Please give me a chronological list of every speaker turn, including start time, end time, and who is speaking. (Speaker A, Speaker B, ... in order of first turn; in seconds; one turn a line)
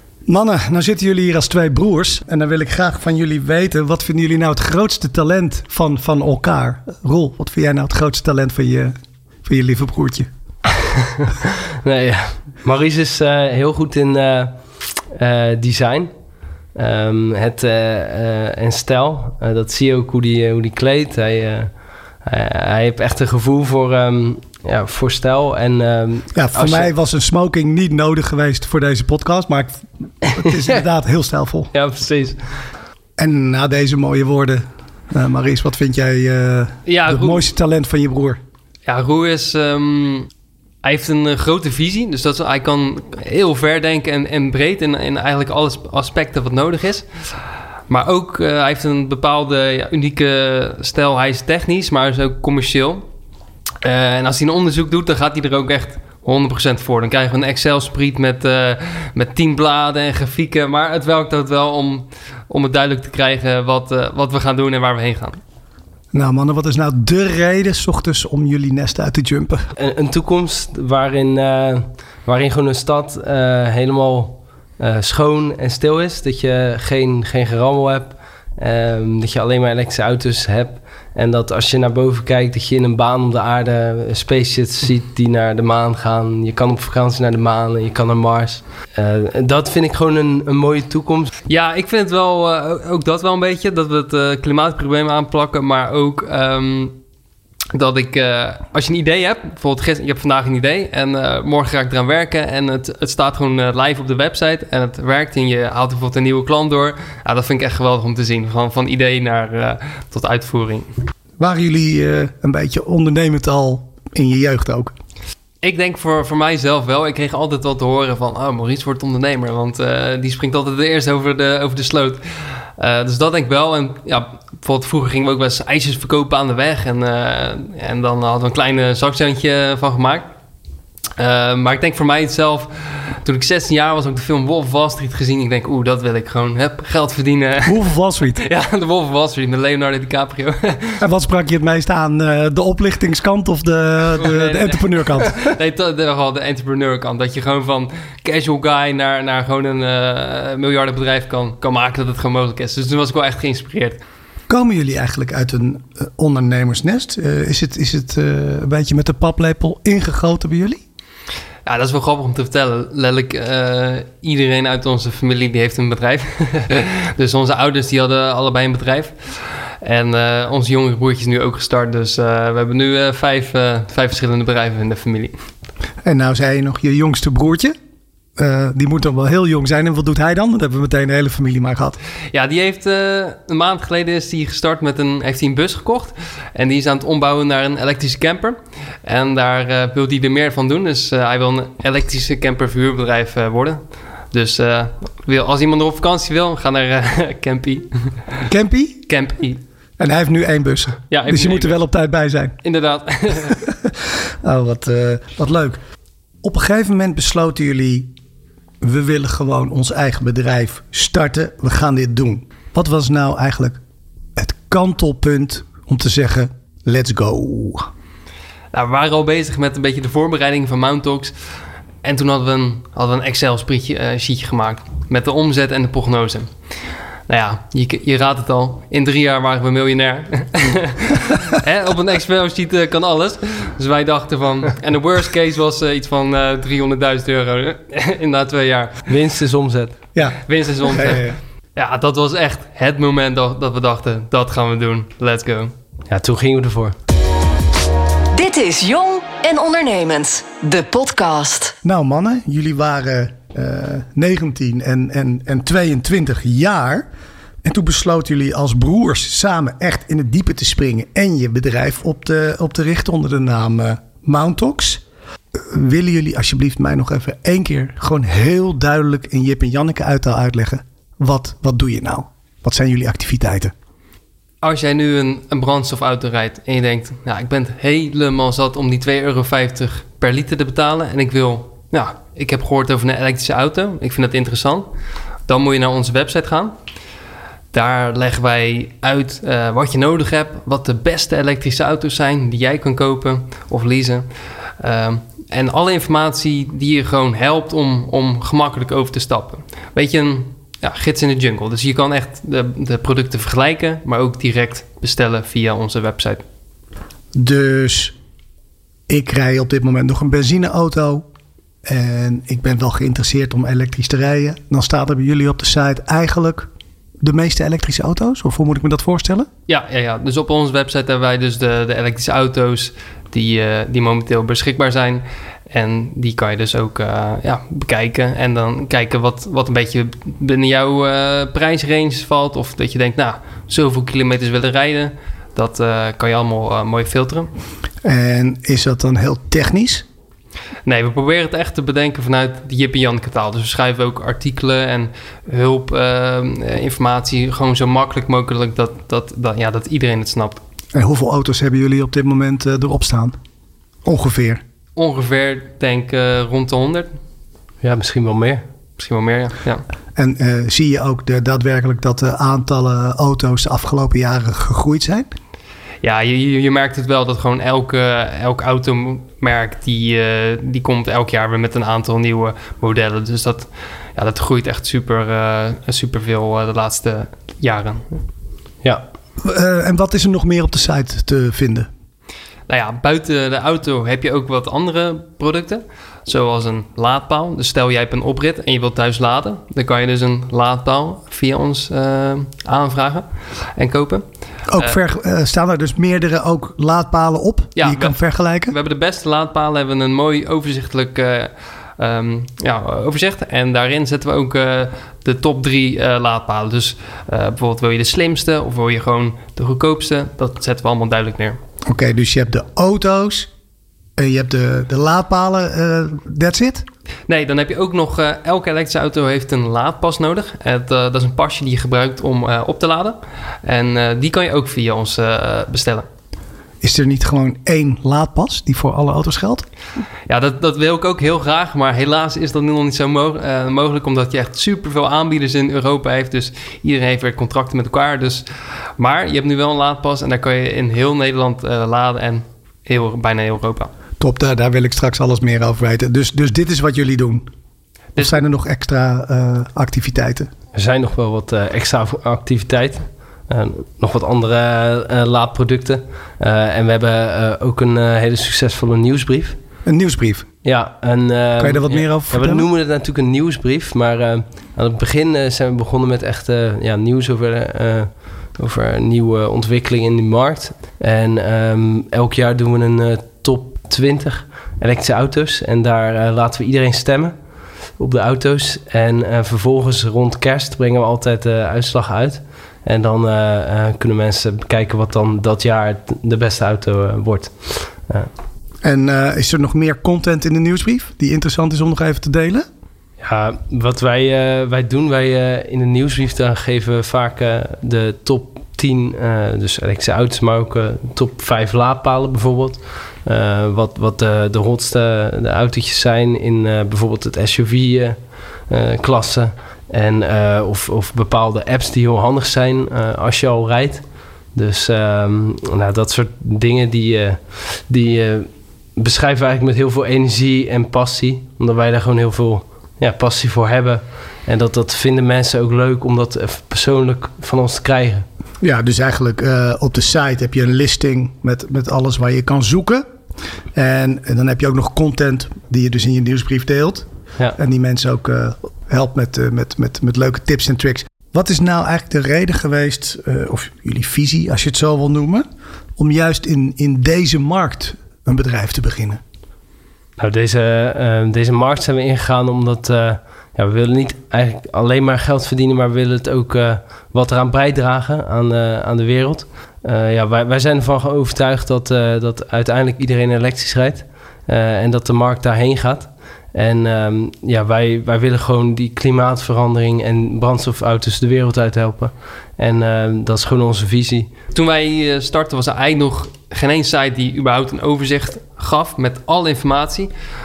Speaker A: 0.3-10.3
Speaker B: 11.8-16.1
Speaker B: 16.7-26.9
Speaker A: 26.3-31.7
Speaker B: 30.4-30.7
Speaker B: 31.7-32.4
Speaker A: 33.2-38.4
Speaker C: 36.9-37.5
Speaker C: 38.9-40.3
Speaker C: 40.8-47.1
Speaker C: 47.9-53.0
Speaker C: 53.8-65.4
Speaker A: 66.1-69.7
Speaker B: 69.8-91.3
Speaker C: 91.5-97.0
Speaker C: 97.7-110.9
Speaker A: 111.4-115.0
Speaker C: 115.6-122.2
Speaker C: 122.8-130.3
Speaker C: 131.2-137.8
Speaker A: 137.7-138.4
Speaker C: 138.4-141.0
Speaker A: 141.0-145.3
Speaker C: 144.2-154.0
Speaker A: 154.5-160.8
Speaker C: 161.7-175.4
Speaker A: 176.0-177.8
Speaker A: 178.4-182.0
Speaker C: 182.3-198.2
Speaker A: 198.5-199.1
Speaker C: 199.1-199.6
Speaker A: 200.0-202.6
Speaker C: 201.1-201.8
Speaker C: 202.6-203.6
Speaker A: 203.5-205.8
Speaker A: 206.4-208.1
Speaker A: 208.8-213.8
Speaker A: 214.4-217.9
Speaker C: 218.7-221.3
Speaker C: 222.0-226.5
Speaker C: 227.3-239.1
Speaker B: 239.1-240.0
Speaker A: 240.2-241.4
Speaker C: 240.5-245.7
Speaker B: 246.1-246.9
Speaker D: 248.3-251.8
Speaker A: 251.8-257.1
Speaker A: 257.6-265.0
Speaker A: 265.6-273.7
Speaker C: 274.6-284.9
Speaker C: 285.5-286.8
Speaker C: 287.7-294.3
Speaker C: 294.8-306.4
Speaker A: 307.3-308.2
Speaker A: 309.1-311.3
Speaker A: 311.8-316.7
Speaker A: 317.2-319.5
Speaker C: 319.7-337.5
Speaker A: 338.0-340.1
Speaker C: 340.9-350.6
Speaker A: 350.9-353.4
Speaker A: 354.1-354.6
Speaker C: 355.0-357.1
Speaker B: 357.8-358.6
Speaker C: 359.0-359.9
Speaker A: 360.1-365.3
Speaker C: 366.0-378.2
Speaker A: 379.4-381.9
Speaker C: 382.7-394.2
Speaker A: 394.7-398.8
Speaker C: 397.8-411.6
Speaker A: 411.9-413.5
Speaker A: 414.2-416.9
Speaker C: 417.3-426.1
Speaker A: 426.8-429.7
Speaker C: 430.3-438.5
Speaker C: 439.0-443.9
Speaker A: 444.2-447.5
Speaker C: 448.2-448.4
Speaker A: 448.2-450.5
Speaker B: 450.8-459.6
Speaker A: 459.9-460.5
Speaker B: 460.6-488.3
Speaker A: 461.6-462.7
Speaker A: 488.8-492.7
Speaker B: 493.2-528.2
Speaker A: 528.6-533.1
Speaker A: 533.7-545.5
Speaker A: 546.0-549.2
Speaker B: 550.2-574.3
Speaker C: 574.5-580.1